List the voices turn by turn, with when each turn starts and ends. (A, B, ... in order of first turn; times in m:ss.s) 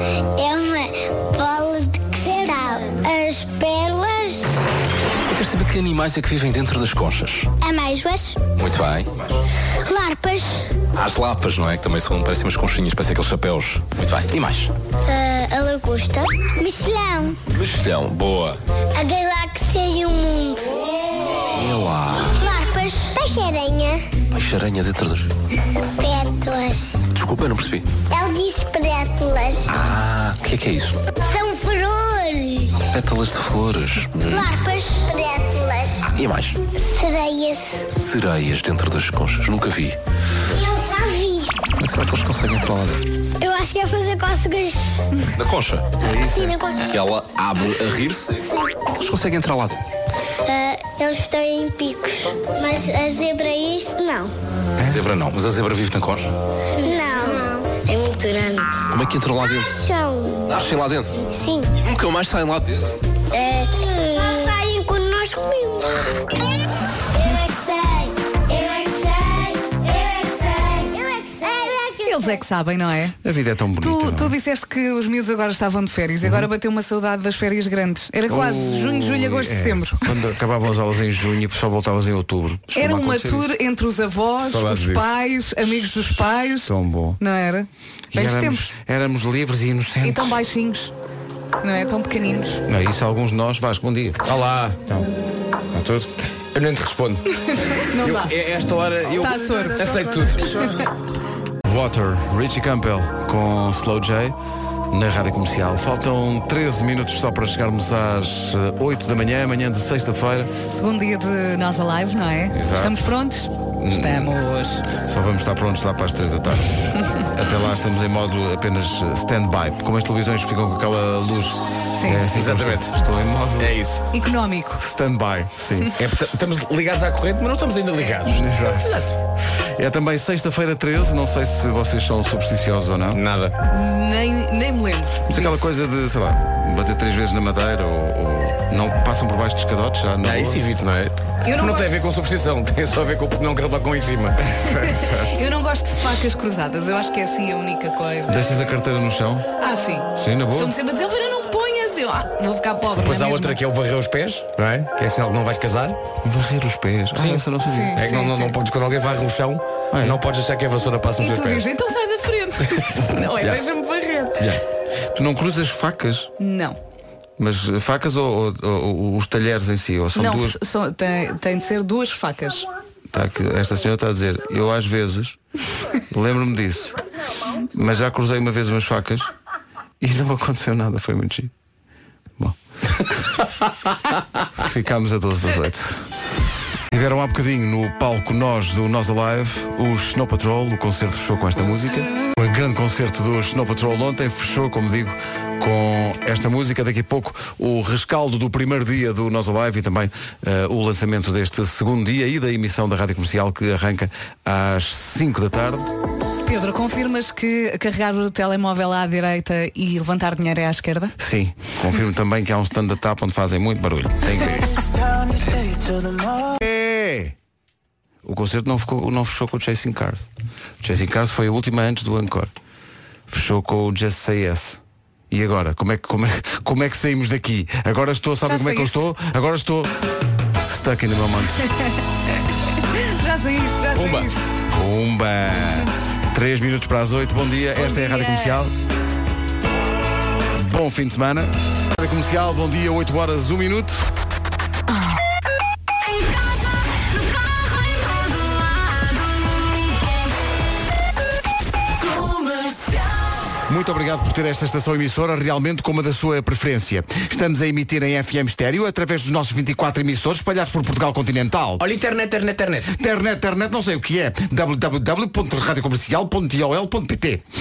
0:00.3-0:04.6 A
0:05.3-0:07.5 B
0:07.6-0:08.4 A
0:08.6-0:09.2 B
0:09.8-0:10.7 A
0:11.0-0:14.7 B
0:15.1-0:17.4 A
0:17.5-0:18.6 B
0:18.9-0:21.4 A
0:21.4-0:22.4 B
0:22.3-0:24.1 A
0:24.3-0:25.3 B
0:26.0-0:27.0 A
0:27.1-0:27.9 B
0:28.1-0:29.7 A
0:29.7-0:31.0 B
0:31.2-0:32.8 A
0:32.9-0:34.5 B
0:34.2-0:36.1 A
0:36.1-0:36.6 B
0:36.7-0:37.8 A
0:37.9-0:40.0 B
0:40.5-0:41.6 A
0:41.8-0:43.1 B
0:43.4-0:45.0 A
0:45.3-0:49.8 B
0:46.0-0:46.9 A
0:48.4-0:48.7 A
0:50.4-0:54.3 A
0:54.8-0:56.3 B
0:56.8-0:58.8 A
0:58.9-0:59.8 B
0:59.7-1:00.5 A
1:00.5-1:01.2 B
1:01.3-1:01.8 A
1:01.8-1:02.9 B
1:03.3-1:06.4 A
1:07.1-1:12.4 A
1:12.0-1:13.2 C
1:13.2-1:14.3 D
1:13.8-1:20.2 C
1:16.2-1:16.5 D
1:18.3-1:23.5 D
1:22.7-1:28.7 C
1:24.4-1:25.1 E
1:26.6-1:27.2 D
1:28.1-1:30.4 D
1:30.0-1:30.9 C
1:31.6-1:32.6 C
1:32.7-1:34.2 D
1:34.2-1:34.8 E
1:35.7-1:36.1 D
1:36.5-1:37.2 E
1:37.8-1:40.9 C
1:38.0-1:40.8 E
1:41.6-1:44.3 D
1:44.9-1:50.5 D
1:50.7-1:54.8 C
1:52.5-1:53.2 D
1:53.7-1:54.3 D
1:55.0-2:03.8 D
2:02.0-2:02.2 C
2:02.3-2:02.9 E
2:03.6-2:04.0 E
2:04.1-2:04.8 C
2:04.8-2:06.0 D
2:06.0-2:09.1 E
2:08.2-2:13.2 D
2:13.1-2:13.6 E
2:13.7-2:15.7 C
2:15.3-2:20.6 D
2:20.2-2:24.4 E
2:21.4-2:22.0 C
2:24.5-2:25.3 D
2:24.7-2:28.6 C
2:28.3-2:29.4 D
2:29.6-2:33.6 C
2:30.2-2:30.7 D
2:33.0-2:36.0 E
2:36.2-2:38.0 D
2:37.1-2:37.4 E
2:37.6-2:38.6 C
2:37.9-2:41.7 E
2:39.9-2:40.2 D
2:41.2-2:44.4 C
2:43.0-2:43.6 E
2:45.1-2:46.3 D
2:46.4-2:46.8 C
2:47.4-2:50.6 D
2:50.2-2:52.7 C
2:53.1-2:55.4 D
2:56.1-2:57.0 D
2:57.6-2:59.3 D
3:00.0-3:01.5 D
3:04.6-3:06.0 D
3:06.9-3:25.8 D
3:26.4-3:31.1 C
3:31.2-3:34.8 D
3:36.6-3:37.3 D
3:38.2-3:40.3 D
3:40.8-3:42.5 D
3:43.3-3:49.9 D
3:48.4-3:49.0 C
3:50.7-3:51.7 D
3:52.7-3:54.4 C
3:53.9-3:54.3 E
3:54.7-3:58.7 D
3:57.8-3:58.7 C
4:00.5-4:04.0 D
4:13.7-4:21.8 D
4:21.8-4:22.9 E
4:22.9-4:27.4 D